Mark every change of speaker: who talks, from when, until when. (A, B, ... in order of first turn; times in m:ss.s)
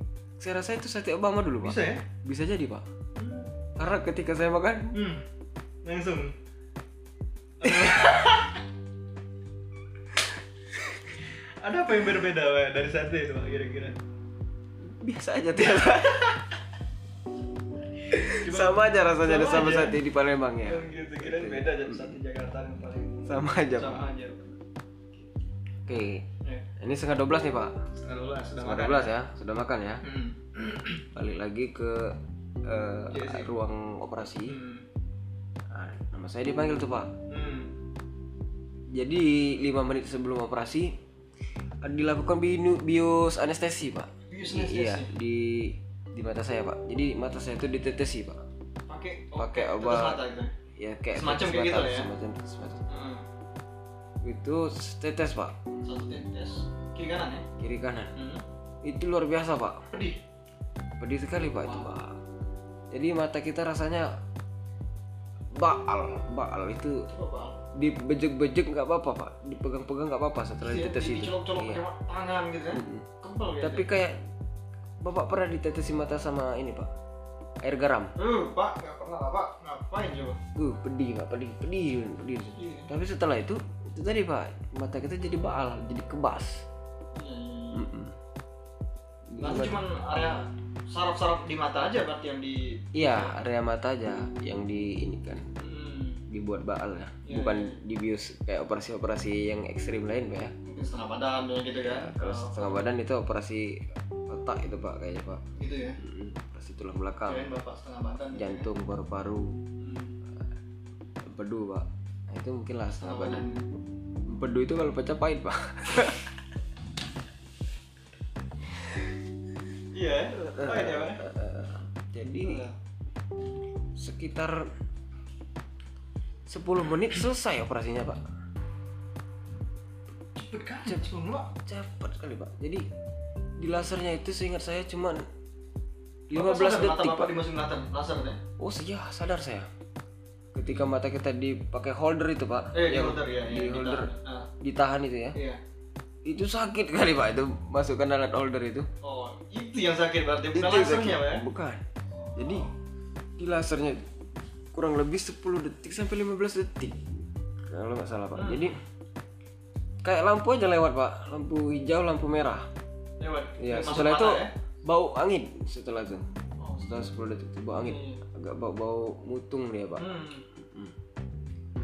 0:00.4-0:02.8 A
0:01.6-0:02.0 B
0:03.2-0:03.5 B
0:03.8-0:05.0 A
0:04.9-0:05.2 B
0:05.8-0:06.4 B
0:07.6-0:08.6 B
0:11.3-0:14.0 B
0:14.8-0:16.4 A
0:15.6-0:16.4 B
0:18.1-0:22.2 A
0:18.1-0:20.0 B
0:20.6-0:24.5 B
0:23.3-0:24.0 A
0:25.9-0:26.2 A
0:26.8-0:27.7 A
0:28.0-0:29.1 B
0:28.6-0:30.0 A
0:30.0-0:31.0 B
0:31.1-0:34.6 A
0:33.1-0:33.5 B
0:34.5-0:34.9 B
0:35.7-0:37.1 A
0:37.3-0:37.8 B
0:38.9-0:41.0 A
0:41.8-0:48.4 A
0:44.3-0:45.1 B
0:48.9-0:50.5 B
0:49.4-0:50.2 A
0:50.8-0:52.8 A
0:51.1-0:52.1 B
0:52.9-0:53.2 B
0:54.2-0:55.6 A
0:55.8-0:57.5 B
0:57.6-0:58.1 A
0:58.1-0:58.4 B
0:58.8-0:59.8 A
0:59.9-1:00.2 B
1:01.0-1:02.2 A
1:01.6-1:01.9 B
1:02.9-1:04.1 A
1:05.6-1:07.1 A
1:07.1-1:07.6 B
1:07.7-1:11.8 A
1:10.6-1:13.9 B
1:12.7-1:13.1 A
1:13.6-1:14.2 A
1:15.0-1:16.9 A
1:17.6-1:18.1 A
1:18.2-1:20.4 B
1:20.6-1:26.6 A
1:22.6-1:22.9 B
1:27.1-1:27.9 B
1:27.7-1:28.1 A
1:29.3-1:29.8 A
1:29.4-1:33.4 B
1:32.9-1:35.4 A
1:35.6-1:36.2 B
1:36.3-1:40.5 A
1:37.2-1:37.8 B
1:40.6-1:42.8 B
1:41.8-1:45.4 A
1:45.6-1:46.0 B
1:46.0-1:47.5 A
1:47.3-1:48.7 B
1:48.4-1:49.6 A
1:49.8-1:50.2 B
1:51.2-1:53.4 A
1:53.0-1:53.6 B
1:54.3-1:56.2 A
1:59.9-2:01.2 B
2:00.4-2:02.6 A
2:02.2-2:02.7 B
2:04.0-2:04.7 A
2:06.5-2:08.2 A
2:10.4-2:11.5 B
2:10.8-2:12.9 A
2:13.6-2:15.3 A
2:16.3-2:17.4 A
2:16.3-2:18.4 B
2:18.6-2:19.7 A
2:20.5-2:25.4 A
2:22.7-2:24.5 B
2:25.3-2:25.6 B
2:26.3-2:28.9 A
2:29.0-2:31.4 B
2:30.5-2:31.8 A
2:32.3-2:32.7 B
2:32.4-2:32.7 A
2:33.4-2:34.0 A
2:34.7-2:38.8 A
2:38.4-2:38.8 B
2:40.0-2:42.7 A
2:43.2-2:44.5 B
2:43.6-2:46.3 A
2:46.6-2:46.9 B
2:46.8-2:50.9 A
2:47.8-2:48.2 B
2:50.0-2:50.5 B